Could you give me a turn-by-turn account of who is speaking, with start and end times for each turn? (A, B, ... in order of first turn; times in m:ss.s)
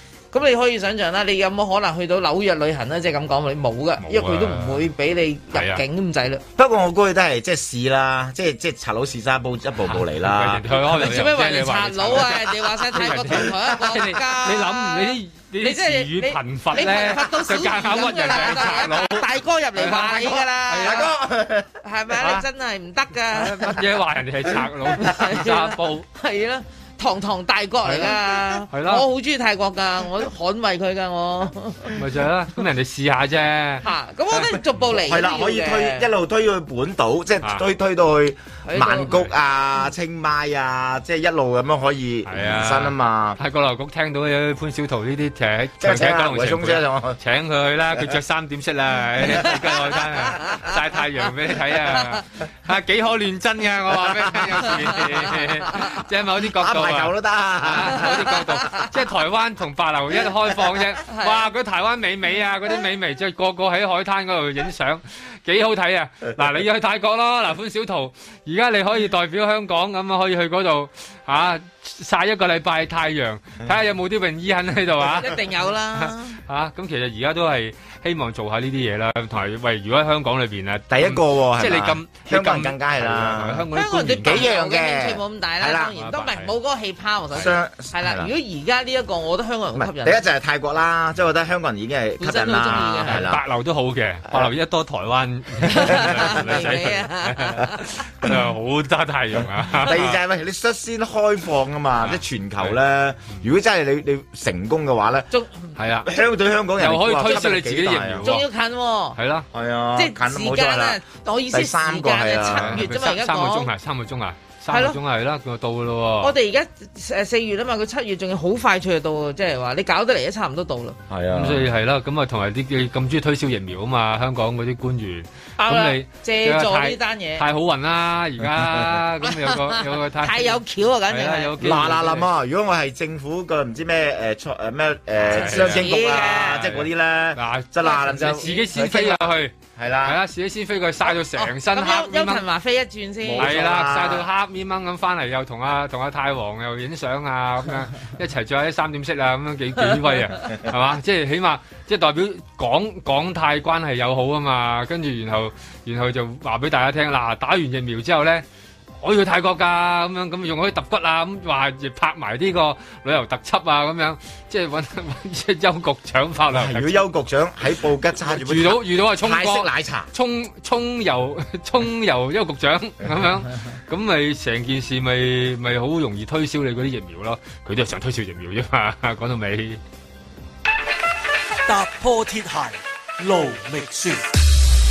0:00.3-0:06.4 A
0:04.0-0:04.9 B
0:05.5-0:05.8 B
0:06.6-0:10.6 C
0:09.9-0:21.1 B
0:10.9-0:21.1 A
0:20.8-0:21.8 C
0:21.8-0:23.8 A
0:22.2-0:22.4 B
0:23.3-0:26.0 B
0:25.0-0:32.0 A
0:27.8-0:29.0 B
0:31.9-0:33.8 B
0:33.8-0:36.1 A
0:34.9-0:43.4 C
0:38.6-0:39.1 A
0:38.8-0:39.3 B
0:42.2-1:24.5 B
0:45.8-0:47.2 C
0:56.4-0:58.5 C
1:01.0-1:01.4 A
1:15.2-1:16.4 A
1:20.9-1:23.7 C
1:23.7-1:30.2 A
1:24.2-1:25.9 C
1:25.9-1:26.5 B
1:27.3-1:28.3 C
1:29.7-1:33.4 C
1:32.2-1:33.2 A
1:33.1-1:40.2 B
1:35.6-1:37.9 A
1:36.2-1:36.6 C
1:39.7-1:45.3 C
1:42.0-1:42.8 B
1:45.3-1:45.7 A
1:45.8-1:46.1 B
1:46.0-1:48.4 C
1:46.8-1:48.5 B
1:48.2-1:49.2 A
1:49.2-1:49.5 B
1:49.5-1:52.8 C
1:50.0-1:53.7 A
1:52.5-1:56.3 B
1:54.7-1:55.0 A
1:56.2-2:01.0 A
2:01.1-2:01.7 C
2:01.3-2:12.2 B
2:05.6-2:07.4 A
2:09.2-2:11.5 A
2:11.6-2:20.2 C
2:15.2-2:19.5 B
2:15.3-2:16.6 A
2:17.8-2:18.7 A
2:20.0-2:22.4 B
2:21.1-2:23.7 A
2:23.2-2:24.2 C
2:23.4-2:38.4 B
2:39.0-2:47.1 B
2:46.5-2:50.1 C
2:48.2-2:59.8 B
3:01.6-3:04.2 D